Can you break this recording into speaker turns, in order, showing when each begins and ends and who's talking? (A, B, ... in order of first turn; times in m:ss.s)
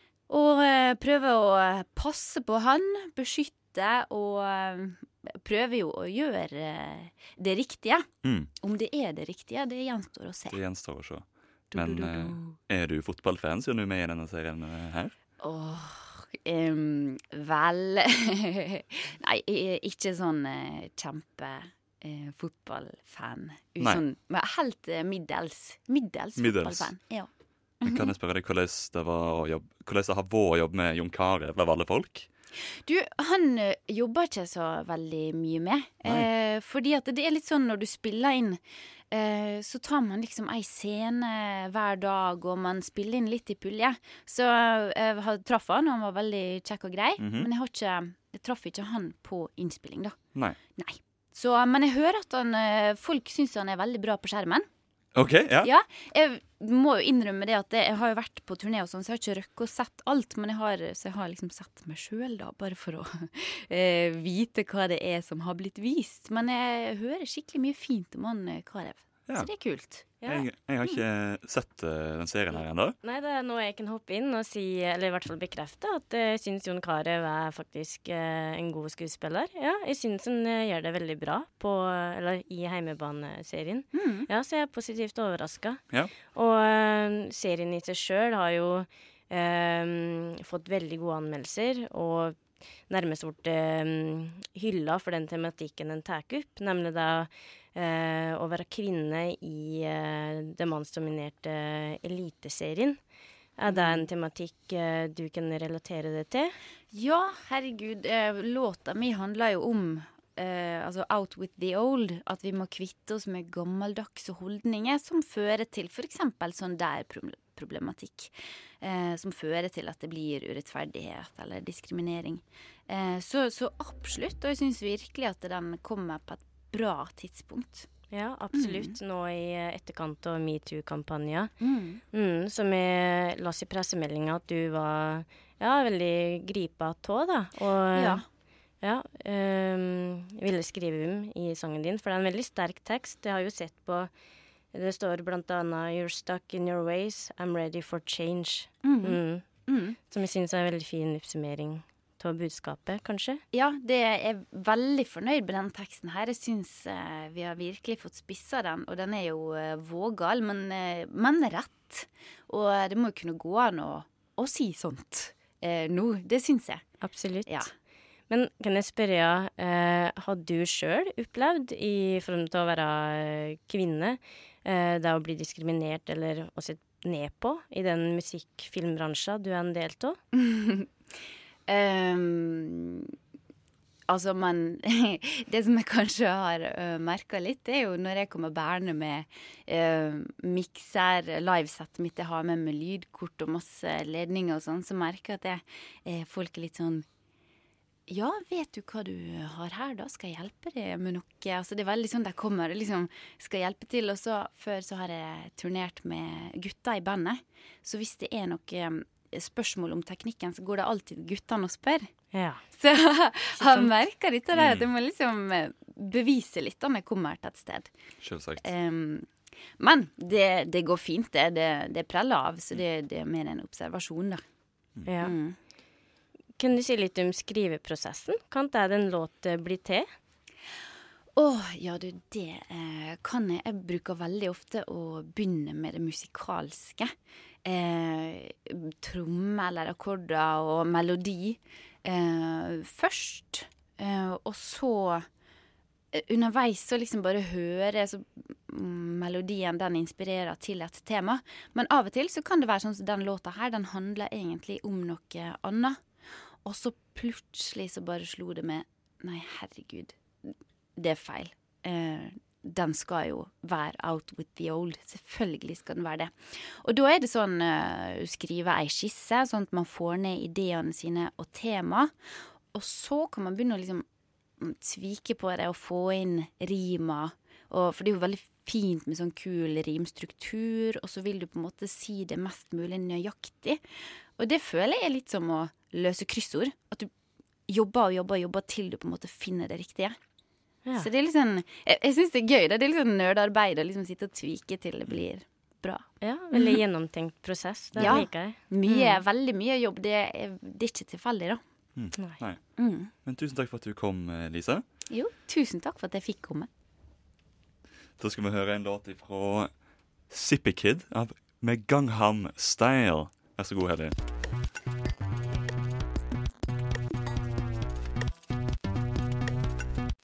0:00.3-0:08.1 A
0:08.2-0:08.5 B
0:08.6-0:10.6 A
0:10.5-0:15.1 B
0:11.7-0:12.6 A
0:15.4-0:27.3 A
0:26.4-0:26.9 B
0:27.8-0:28.1 A
0:27.8-0:32.3 B
0:32.8-0:38.6 A
0:39.1-0:50.2 A
0:47.2-0:47.5 B
0:50.8-0:54.7 A
0:55.2-0:55.7 B
0:55.6-1:10.1 A
1:10.2-1:10.5 C
1:10.3-1:13.0 B
1:13.0-1:43.0 C
1:23.9-1:24.3 A
1:43.6-1:46.6 C
1:43.7-1:44.1 A
1:46.9-2:07.9 A
2:08.1-2:11.5 C
2:08.5-2:09.0 A
2:11.6-2:12.0 A
2:12.1-2:18.2 C
2:17.9-2:18.2 A
2:18.8-2:24.1 C
2:24.7-2:29.4 C
2:28.8-2:30.0 A
2:30.0-2:33.4 C
2:33.5-2:46.9 A
2:47.0-2:47.7 C
2:47.5-2:47.7 A
2:48.3-3:00.2 C
3:00.3-3:00.9 A
3:01.7-3:03.1 A
3:04.1-3:17.0 A
3:18.1-3:32.1 A
3:32.3-3:32.6 C
3:32.7-3:37.9 A
3:33.6-3:33.9 C
3:34.5-3:34.9 B
3:38.2-3:38.6 B
3:38.6-3:39.3 A
3:39.8-3:44.4 A
3:45.1-3:45.3 C
3:45.2-3:45.6 A
3:46.6-3:50.1 C
3:51.4-3:57.1 A
3:57.6-4:05.3 A
4:06.1-4:16.0 A
4:16.6-4:32.1 A
4:32.7-4:34.1 A
4:34.6-4:43.8 A
4:44.4-4:47.1 A
4:47.7-4:50.2 A
4:51.0-4:56.8 A
4:56.2-4:59.2 C
4:58.0-4:58.2 B
4:58.0-5:01.6 A
5:02.0-5:02.6 B
5:02.8-5:03.1 A
5:03.2-5:04.8 B
5:05.1-5:06.7 A
5:08.2-5:09.7 B
5:10.3-5:14.2 B